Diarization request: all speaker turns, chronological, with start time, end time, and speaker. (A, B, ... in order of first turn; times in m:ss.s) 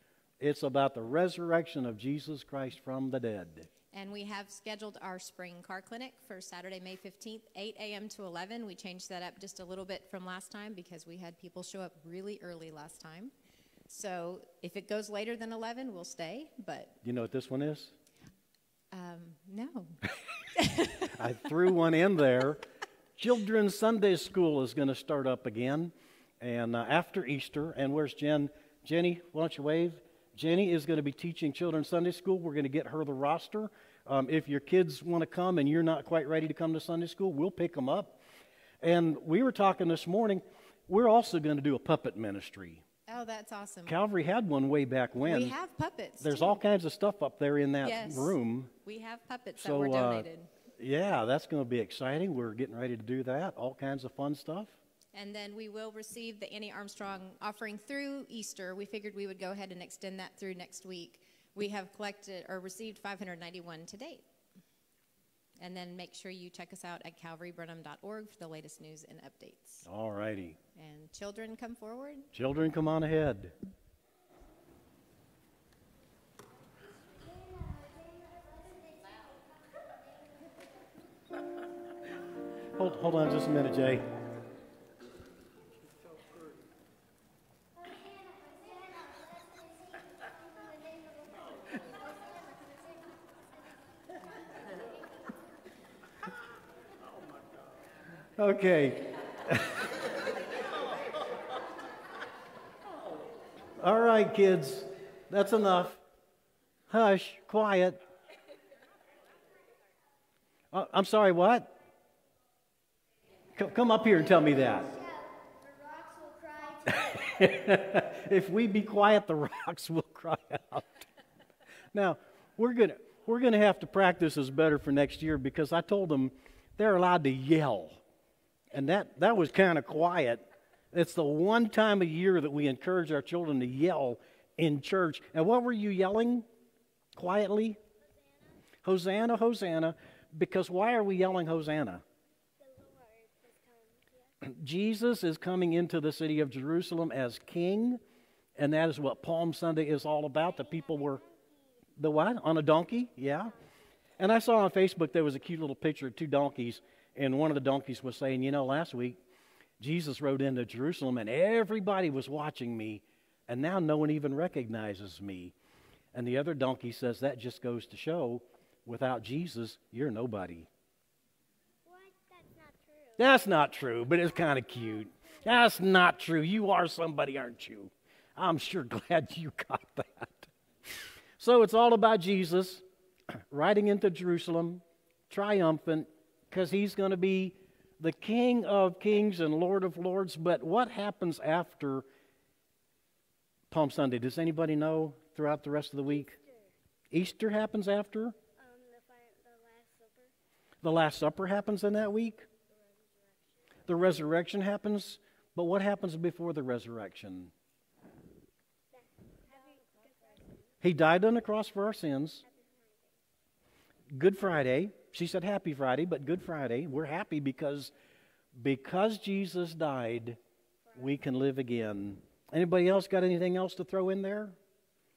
0:00.4-0:03.7 A
0:03.9-0:13.3 B
0:13.9-0:16.9 B
0:17.0-0:17.9 A
0:18.9-0:20.0 B
0:20.6-0:21.1 B
0:21.1-0:22.6 A
0:23.2-0:38.2 A
0:38.8-0:42.8 A
0:43.1-0:43.9 B
0:43.8-0:45.6 A
0:45.2-0:46.6 B
0:46.2-0:48.7 A
0:47.8-0:50.5 B
0:49.6-0:50.3 A
0:50.8-0:54.8 A
0:55.1-1:04.2 B
1:05.6-1:09.8 B
1:09.8-1:10.6 A
1:10.8-1:12.3 B
1:12.3-1:13.5 A
1:17.1-1:20.6 C
1:22.8-1:24.0 A
1:27.8-1:33.2 C
1:38.4-1:39.9 A
1:43.8-1:46.0 A
1:46.9-1:48.0 A
1:50.7-1:51.7 A
1:53.6-1:54.9 A
1:54.5-1:57.6 C
1:56.9-2:01.0 A
2:01.9-2:08.0 A
2:08.7-2:16.4 A
2:17.2-2:17.8 A
2:18.0-2:18.5 C
2:18.8-2:22.0 A
2:22.6-2:24.3 C
2:24.4-2:28.0 A
2:28.6-2:31.2 A
2:30.4-2:31.8 C
2:32.0-2:33.5 A
2:34.2-2:39.2 A
2:39.8-2:45.5 A
2:46.1-2:50.7 A
2:51.8-2:55.5 C
2:53.2-3:02.8 A
3:03.3-3:12.0 A
3:13.7-3:16.4 A
3:16.0-3:16.7 C
3:17.1-3:18.4 A
3:18.6-3:20.3 C
3:20.8-3:22.5 A
3:22.8-3:23.6 C
3:23.9-3:27.5 A
3:28.9-3:30.6 C
3:30.8-3:32.4 A
3:32.4-3:33.2 C
3:34.1-3:37.9 A
3:38.5-3:40.4 A
3:40.8-3:41.2 C
3:40.9-3:44.6 A